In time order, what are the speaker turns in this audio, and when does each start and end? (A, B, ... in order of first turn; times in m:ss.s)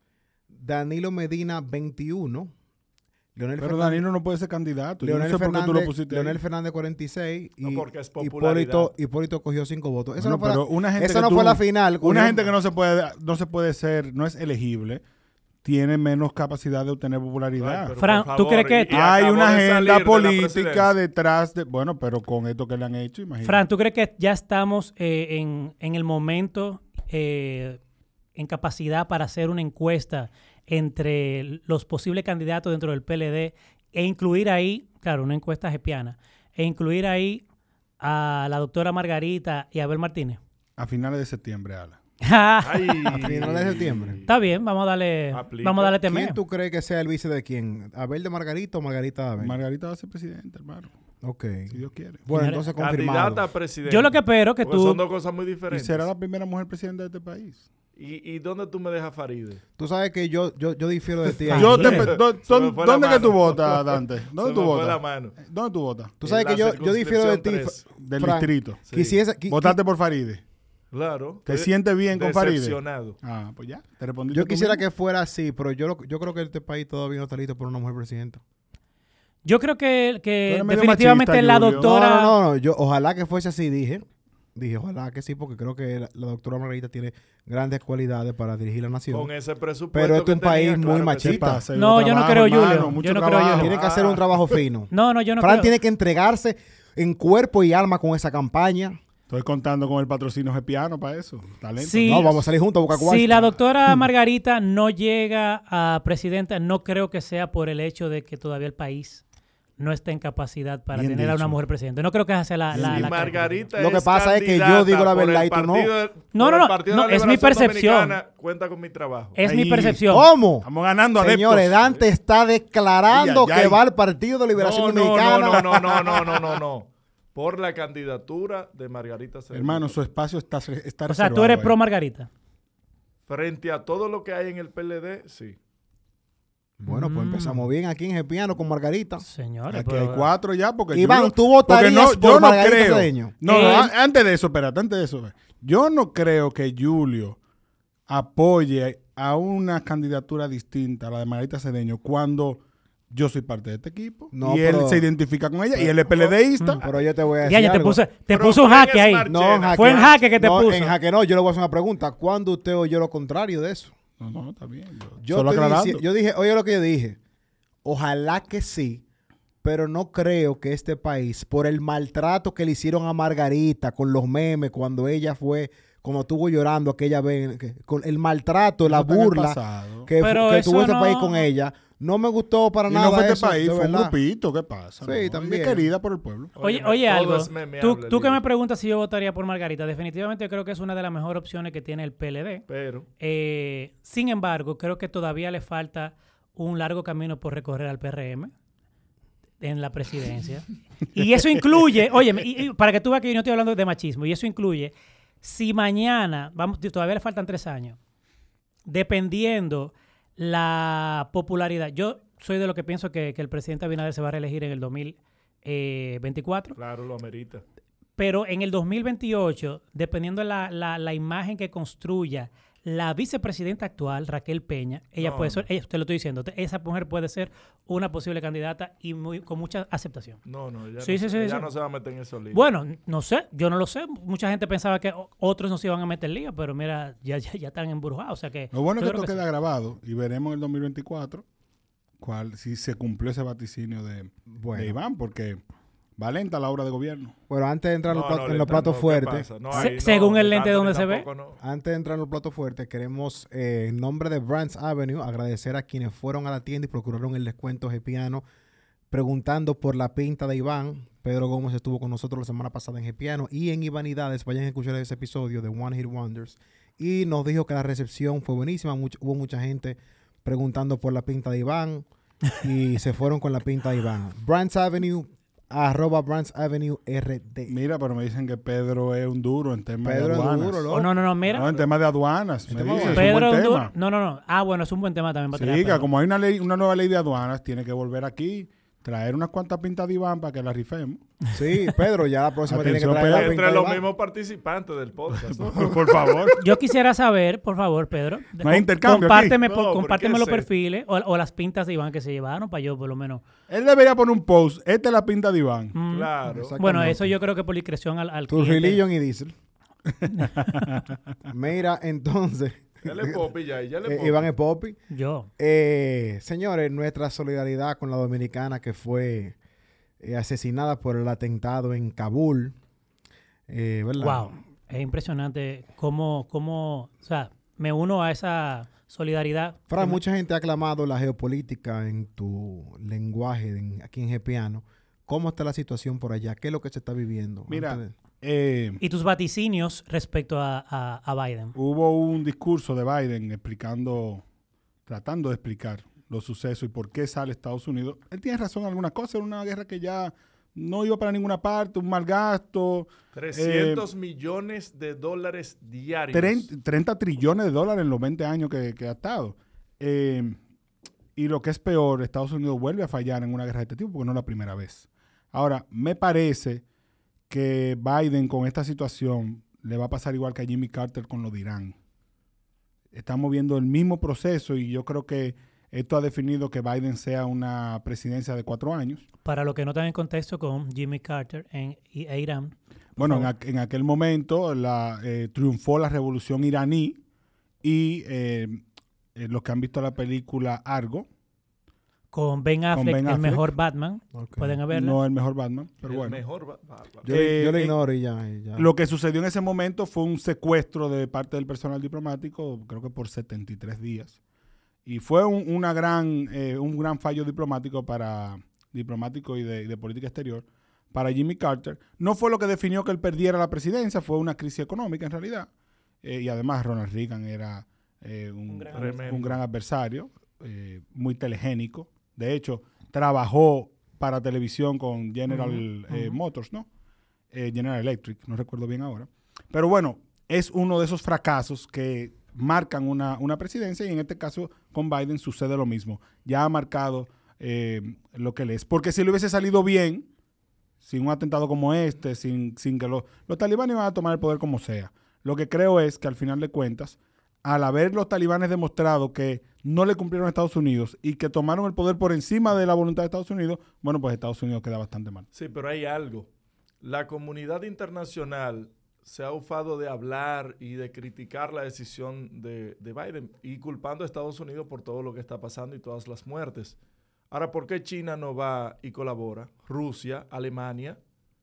0:00.5-0:02.5 A
0:03.4-0:04.1 A
0:03.6-0:06.4 B
0:05.0-0:12.5 A
0:07.6-0:08.9 C
0:10.2-0:15.0 B
0:15.6-0:17.9 B
0:17.6-0:20.9 C
0:18.0-0:18.9 D
0:18.9-0:23.6 B
0:23.4-0:27.8 D
0:28.4-0:37.4 D
0:38.0-0:40.4 D
0:40.8-0:42.0 B
0:42.2-0:43.3 D
0:42.6-0:44.3 C
0:43.2-0:44.2 A
0:44.3-0:46.4 D
0:45.3-0:46.0 C
0:46.1-0:49.6 A
0:49.4-0:50.9 B
0:51.2-0:53.5 A
0:51.7-0:52.2 B
0:52.3-0:52.7 D
0:52.8-0:56.1 C
0:53.9-0:55.0 D
0:55.7-0:57.6 B
0:58.0-0:59.6 C
0:59.8-1:02.2 A
1:01.5-1:02.1 D
1:01.5-1:06.2 B
1:01.6-1:05.4 C
1:06.2-1:09.8 A
1:06.2-1:07.9 C
1:08.0-1:08.8 B
1:08.9-1:09.2 C
1:09.5-1:10.4 B
1:10.9-1:13.2 C
1:11.5-1:14.8 B
1:14.3-1:18.4 A
1:19.4-1:22.4 D
1:20.5-1:21.9 B
1:21.8-1:29.3 A
1:29.1-1:31.6 C
1:29.9-1:31.6 A
1:31.2-1:33.8 B
1:31.8-1:33.7 D
1:33.6-1:39.0 A
1:33.8-1:34.6 C
1:34.9-1:35.7 D
1:39.3-1:42.5 B
1:41.8-1:42.3 D
1:42.0-1:44.0 A
1:42.9-1:49.2 D
1:49.8-1:53.7 D
1:50.9-1:51.6 B
1:52.7-1:53.0 B
1:52.8-1:59.4 C
1:52.8-1:53.1 A
1:53.8-1:55.9 A
1:56.3-1:58.2 D
1:59.4-2:00.3 D
1:59.4-2:00.0 B
2:00.1-2:05.9 A
2:00.6-2:01.9 B
2:03.1-2:03.8 B
2:04.6-2:09.9 C
2:05.5-2:06.4 B
2:09.5-2:11.8 B
2:11.1-2:12.3 D
2:13.3-2:15.6 C
2:16.8-2:19.2 A
2:16.9-2:17.6 D
2:19.2-2:20.3 D
2:19.7-2:27.4 B
2:20.9-2:23.9 A
2:23.5-2:23.9 D
2:28.1-2:36.9 B
2:34.3-2:35.1 A
2:35.7-2:38.0 A
2:37.4-2:40.9 D
2:38.3-2:40.2 C
2:39.3-2:43.9 A
2:44.2-2:46.0 B
2:45.2-2:47.2 A
2:47.8-2:49.0 A
2:49.6-3:04.2 A
2:58.8-3:00.1 B
3:00.2-3:01.5 D
3:02.9-3:06.5 B
3:05.0-3:05.9 A
3:06.6-3:08.4 C
3:06.6-3:12.6 D
3:12.7-3:13.1 C
3:13.2-3:18.5 D
3:19.6-3:28.0 D
3:28.9-3:36.8 D
3:36.8-3:37.6 C
3:38.2-3:50.4 D
3:45.2-3:45.6 C
3:50.4-3:52.6 C
3:51.0-3:51.7 D
3:52.5-3:59.4 D
3:58.7-4:01.4 B
4:02.2-4:05.6 B
4:04.5-4:05.0 A
4:06.2-4:07.4 B
4:07.5-4:09.9 A
4:08.1-4:11.6 C
4:09.7-4:11.3 D
4:11.6-4:18.4 A
4:19.1-4:32.1 A
4:32.6-4:37.8 A
4:37.7-4:40.9 B
4:40.0-4:41.2 A
4:40.9-4:41.7 D
4:41.5-4:41.9 C
4:41.5-4:43.9 B
4:42.7-4:43.4 A
4:42.9-4:46.1 D
4:45.5-4:51.2 B
4:51.5-4:54.1 A
4:52.7-4:53.6 B
4:53.0-4:56.5 C
4:55.5-4:56.6 B
4:56.6-5:03.4 D
4:58.6-4:59.6 B
4:59.6-5:00.7 C
5:03.7-5:05.9 B
5:05.9-5:09.0 D
5:06.1-5:06.8 C
5:06.5-5:07.3 A
5:08.5-5:09.5 A
5:10.1-5:11.0 B
5:10.3-5:10.7 D
5:11.5-5:13.5 A
5:13.0-5:14.5 C
5:14.0-5:15.0 A
5:15.1-5:15.5 D
5:15.6-5:19.6 A
5:20.2-5:22.8 A
5:23.7-5:24.5 A
5:24.2-5:30.2 D
5:29.9-5:38.1 A
5:37.7-5:39.0 B
5:39.0-5:41.8 D
5:41.8-5:44.4 B
5:45.1-5:54.0 B
5:53.3-5:56.7 C
5:56.3-6:00.6 B
6:01.4-6:06.8 B
6:07.5-6:12.0 B
6:13.1-6:19.2 B
6:19.4-6:23.5 D
6:23.2-6:27.2 B
6:27.8-6:28.8 B
6:29.4-6:31.3 B
6:32.3-6:35.2 D
6:32.9-6:33.7 B
6:34.3-6:34.8 A
6:34.9-6:36.4 B
6:36.0-6:37.3 C
6:37.2-6:38.9 A
6:37.3-6:38.0 B
6:38.8-6:44.4 B
6:45.0-6:55.7 B
6:56.2-7:06.9 B
6:58.7-6:59.3 D
6:58.9-6:59.6 C
7:05.5-7:06.4 D
7:07.5-7:20.3 B
7:21.0-7:35.5 B
7:35.5-7:36.5 C
7:37.0-7:47.0 C
7:47.5-7:51.2 C